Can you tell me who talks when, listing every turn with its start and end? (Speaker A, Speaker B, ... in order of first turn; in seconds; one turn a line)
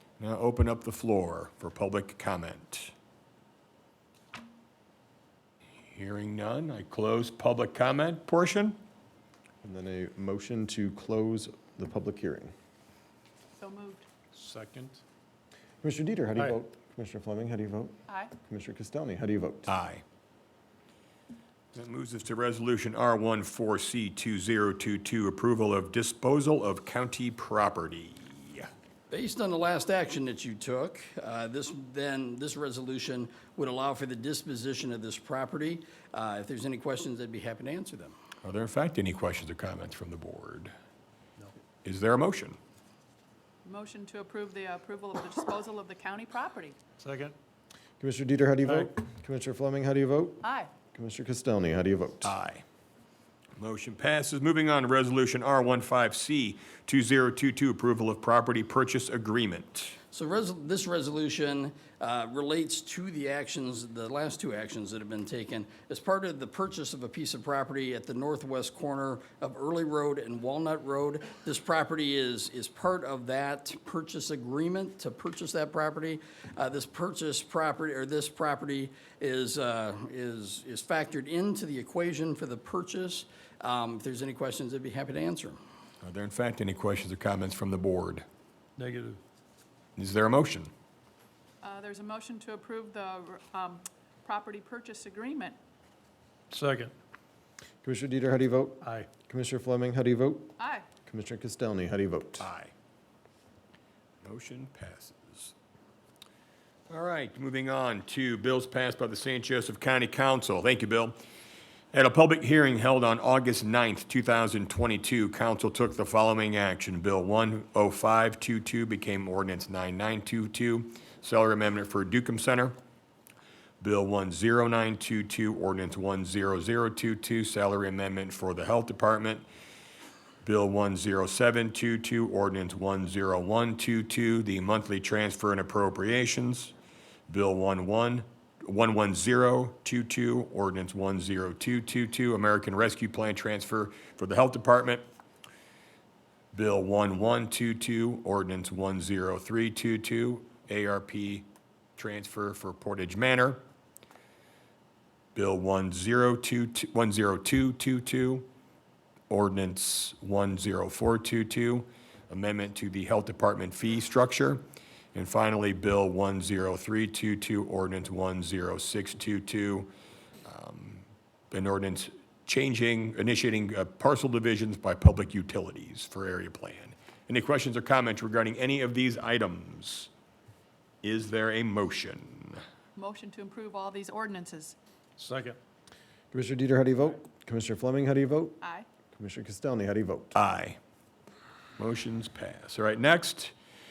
Speaker A: 0.2-2.9
Speaker A: 5.9-8.8
Speaker B: 9.6-12.5
Speaker C: 13.6-14.1
Speaker D: 14.3-15.0
Speaker B: 15.8-19.7
Speaker C: 18.1-18.3
Speaker A: 19.7-20.0
Speaker A: 21.7-28.7
Speaker E: 29.1-38.2
Speaker A: 38.4-40.7
Speaker A: 41.8-42.6
Speaker C: 43.6-46.8
Speaker D: 47.0-47.4
Speaker B: 48.0-52.4
Speaker C: 50.4-50.7
Speaker A: 52.2-52.6
Speaker A: 53.6-60.0
Speaker E: 60.1-85.6
Speaker A: 86.0-88.2
Speaker D: 88.8-89.2
Speaker A: 90.0-90.7
Speaker C: 91.6-95.6
Speaker D: 96.5-96.9
Speaker B: 97.8-100.5
Speaker D: 98.8-99.1
Speaker C: 100.6-100.9
Speaker B: 101.0-102.5
Speaker A: 102.4-102.7
Speaker A: 104.2-105.5
Speaker A: 106.9-111.2
Speaker A: 111.9-122.8
Speaker A: 123.8-129.4
Speaker A: 130.4-136.7
Speaker A: 137.3-145.0
Speaker A: 146.5-153.6
Speaker A: 155.3-158.5
Speaker A: 159.3-164.6
Speaker A: 165.1-169.9
Speaker A: 170.4-180.1
Speaker A: 181.0-182.6
Speaker C: 183.0-184.8
Speaker D: 185.2-185.6
Speaker B: 186.3-188.6
Speaker C: 188.6-188.9
Speaker B: 189.1-190.4
Speaker A: 190.3-190.8
Speaker A: 191.8-193.5